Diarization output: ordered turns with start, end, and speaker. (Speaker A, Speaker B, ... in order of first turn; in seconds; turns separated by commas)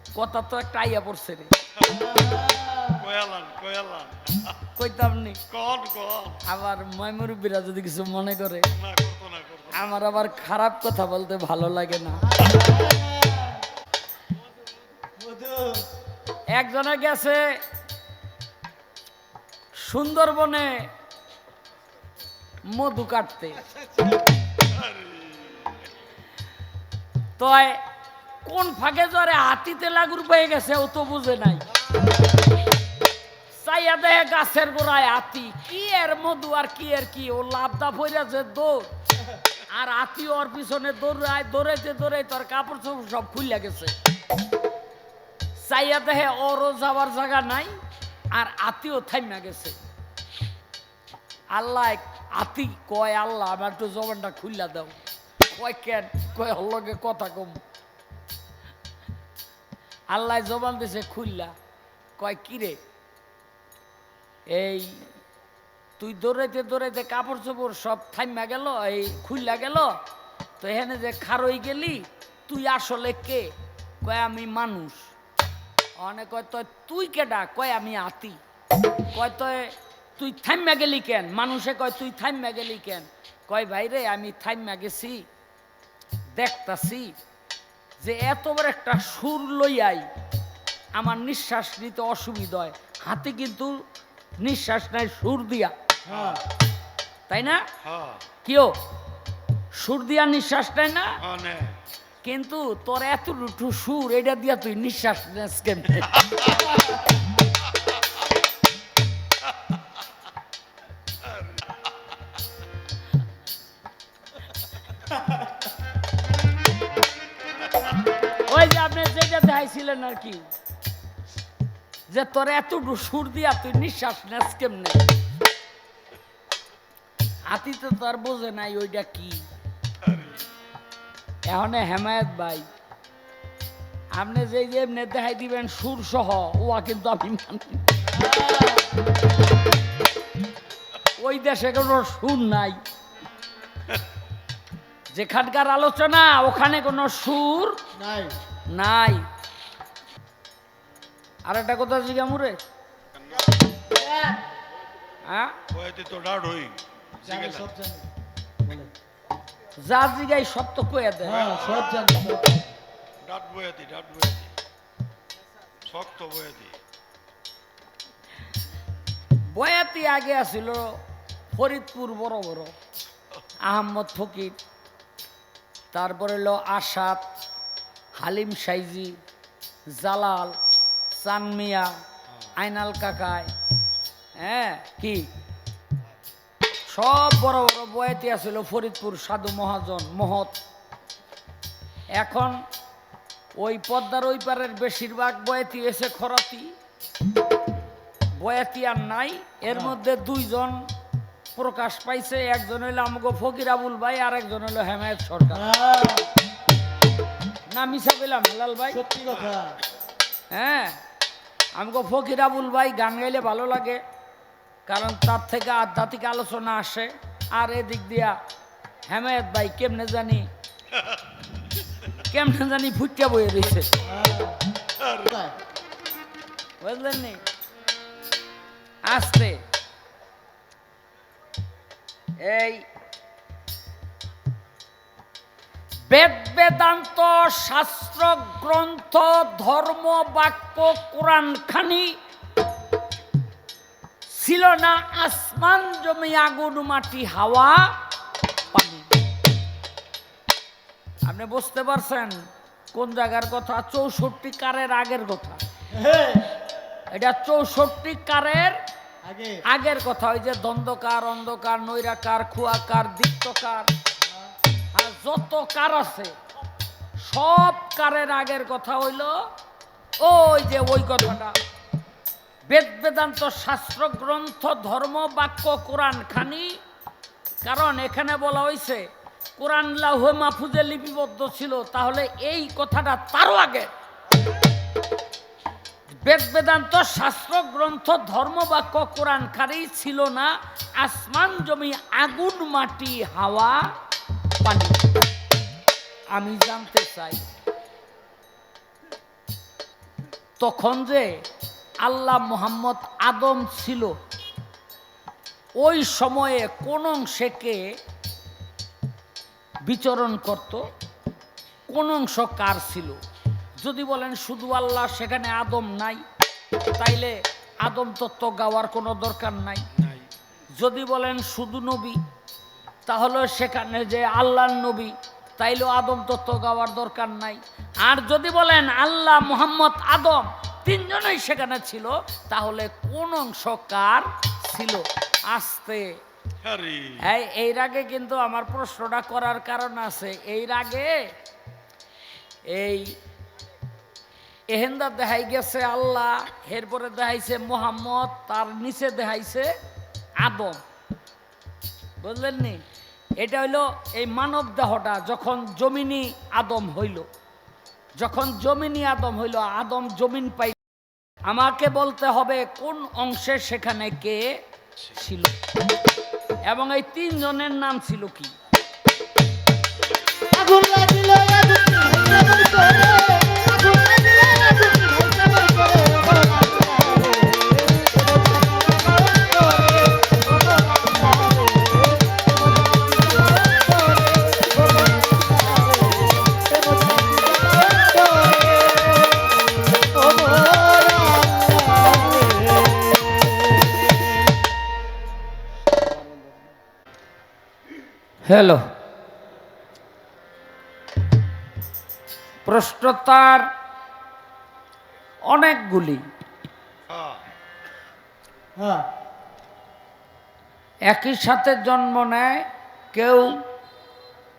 Speaker A: 0.1-1.5, Speaker B: 1.8-2.1, Speaker C: 2.0-3.0, Speaker B: 2.9-4.5, Speaker A: 4.8-5.4, Speaker B: 5.5-6.4, Speaker A: 6.4-8.7, Speaker B: 8.7-9.9, Speaker A: 9.7-12.3, Speaker C: 12.4-13.6, Speaker C: 15.2-15.9, Speaker A: 16.5-17.6, Speaker A: 19.8-20.9, Speaker A: 22.7-23.6, Speaker B: 24.7-25.6, Speaker A: 27.4-27.8, Speaker A: 28.4-31.7, Speaker A: 33.5-38.9, Speaker A: 39.7-43.9, Speaker A: 45.6-47.8, Speaker A: 48.3-49.8, Speaker A: 51.5-55.0, Speaker A: 55.5-57.6, Speaker A: 60.1-61.5, Speaker A: 62.2-62.8, Speaker A: 64.5-65.1, Speaker A: 66.0-70.0, Speaker A: 70.6-73.5, Speaker A: 74.0-75.1, Speaker A: 76.0-78.4, Speaker A: 79.1-85.2, Speaker A: 86.3-87.1, Speaker A: 88.0-90.1, Speaker A: 91.0-93.8, Speaker A: 94.4-95.7, Speaker C: 96.1-96.4, Speaker B: 96.1-96.4, Speaker A: 97.3-97.6, Speaker B: 97.8-98.2, Speaker A: 98.4-98.8, Speaker A: 99.7-101.2, Speaker B: 101.2-101.8, Speaker A: 102.2-106.5, Speaker A: 118.3-120.5, Speaker A: 122.1-125.1, Speaker A: 127.5-129.5, Speaker B: 130.1-130.4, Speaker A: 131.5-132.7, Speaker A: 134.1-137.9, Speaker C: 138.1-138.9, Speaker A: 141.2-142.8, Speaker A: 145.1-147.8, Speaker C: 147.9-148.4, Speaker A: 148.7-149.3, Speaker A: 151.5-152.6, Speaker C: 153.8-154.4, Speaker A: 155.2-155.6, Speaker B: 155.7-157.7, Speaker C: 157.2-158.1, Speaker C: 158.6-158.9, Speaker A: 159.8-161.5, Speaker C: 161.2-162.7, Speaker B: 161.3-161.9, Speaker B: 163.2-164.5, Speaker B: 165.9-166.8, Speaker A: 169.5-171.0, Speaker A: 171.5-172.7, Speaker A: 173.7-174.6, Speaker A: 175.9-177.2, Speaker A: 178.2-179.2, Speaker A: 179.9-180.6, Speaker A: 181.1-181.9, Speaker A: 182.6-183.5, Speaker A: 184.4-185.3, Speaker A: 186.9-190.6, Speaker A: 192.2-192.6, Speaker A: 193.6-196.7, Speaker A: 198.4-200.9, Speaker A: 201.6-205.7, Speaker C: 205.5-206.3, Speaker A: 207.7-209.0, Speaker C: 208.9-209.8, Speaker A: 210.5-211.0, Speaker A: 211.8-214.0, Speaker A: 214.9-218.4, Speaker A: 219.1-220.5, Speaker A: 222.2-223.9, Speaker C: 224.1-224.6, Speaker B: 225.0-225.3, Speaker C: 225.2-225.6, Speaker A: 226.8-227.4, Speaker A: 229.0-229.6, Speaker A: 232.4-232.9, Speaker A: 236.1-242.2, Speaker A: 244.3-248.0, Speaker A: 248.7-249.1, Speaker A: 251.2-255.6, Speaker C: 255.9-256.5, Speaker A: 257.1-258.8, Speaker C: 259.2-259.6, Speaker A: 259.7-263.9, Speaker A: 264.9-266.3, Speaker A: 267.2-269.4, Speaker A: 270.2-271.6, Speaker A: 272.7-276.8, Speaker A: 277.6-283.9, Speaker A: 286.1-293.9, Speaker A: 294.6-295.1, Speaker A: 296.3-297.4, Speaker A: 300.6-301.4, Speaker A: 302.0-304.2, Speaker A: 305.8-307.9, Speaker A: 309.8-310.9, Speaker A: 311.9-313.2, Speaker A: 313.8-316.2, Speaker A: 316.9-319.9, Speaker B: 320.0-320.3, Speaker A: 320.7-322.2, Speaker A: 323.1-336.1, Speaker B: 336.6-337.3, Speaker A: 337.2-341.3, Speaker A: 342.7-343.1, Speaker A: 344.7-349.7, Speaker A: 350.4-350.8, Speaker A: 352.2-352.8, Speaker A: 353.4-357.3, Speaker A: 358.2-360.8, Speaker A: 361.5-364.6, Speaker A: 365.1-365.6, Speaker A: 366.7-368.6, Speaker C: 370.5-382.0, Speaker C: 383.1-389.2, Speaker C: 390.1-392.9, Speaker A: 398.4-398.9, Speaker A: 402.6-403.7, Speaker A: 405.5-406.2, Speaker B: 407.1-407.4, Speaker C: 408.8-409.1, Speaker A: 411.1-413.6